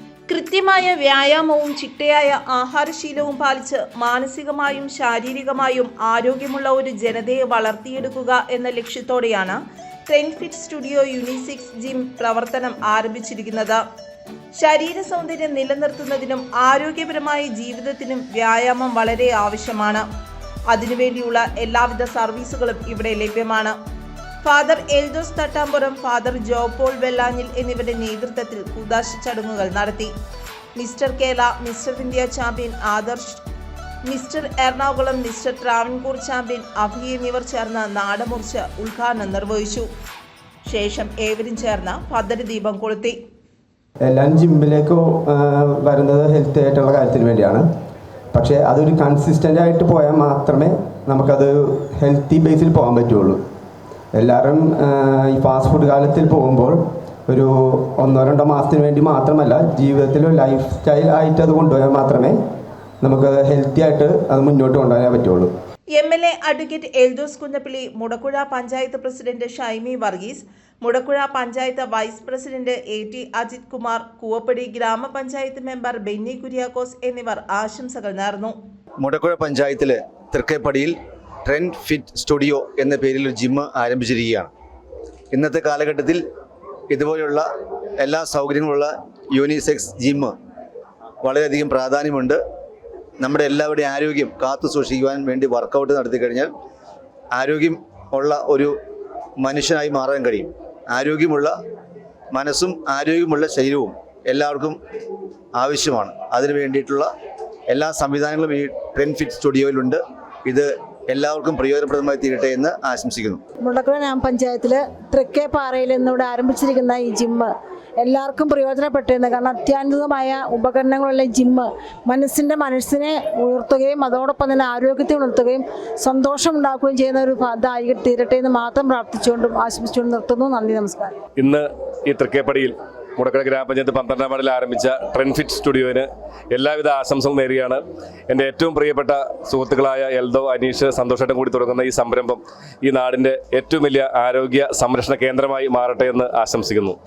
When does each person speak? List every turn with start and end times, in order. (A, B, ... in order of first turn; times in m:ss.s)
0:00.3-0:09.6 A
0:10.1-0:13.8 A
0:14.6-0:20.0 A
0:20.7-0:23.8 A
0:24.4-0:30.1 A
0:30.8-0:33.4 A
0:34.0-0:39.9 A
0:40.7-0:43.2 A
0:44.1-0:47.6 B
0:48.3-0:53.4 B
0:54.2-0:56.8 B
0:57.3-1:02.4 B
1:03.0-1:05.5 B
1:05.9-1:18.6 A
1:19.0-1:24.5 C
1:25.3-1:26.2 C
1:26.9-1:27.5 C
1:28.0-1:30.4 C
1:31.2-1:32.4 C
1:33.2-1:36.5 C
1:37.3-1:38.7 C
1:39.4-1:41.6 C
1:42.3-1:44.8 C
1:45.6-1:47.1 C
1:47.7-1:53.4 C
1:53.6-2:11.2 D
2:11.4-2:27.0 E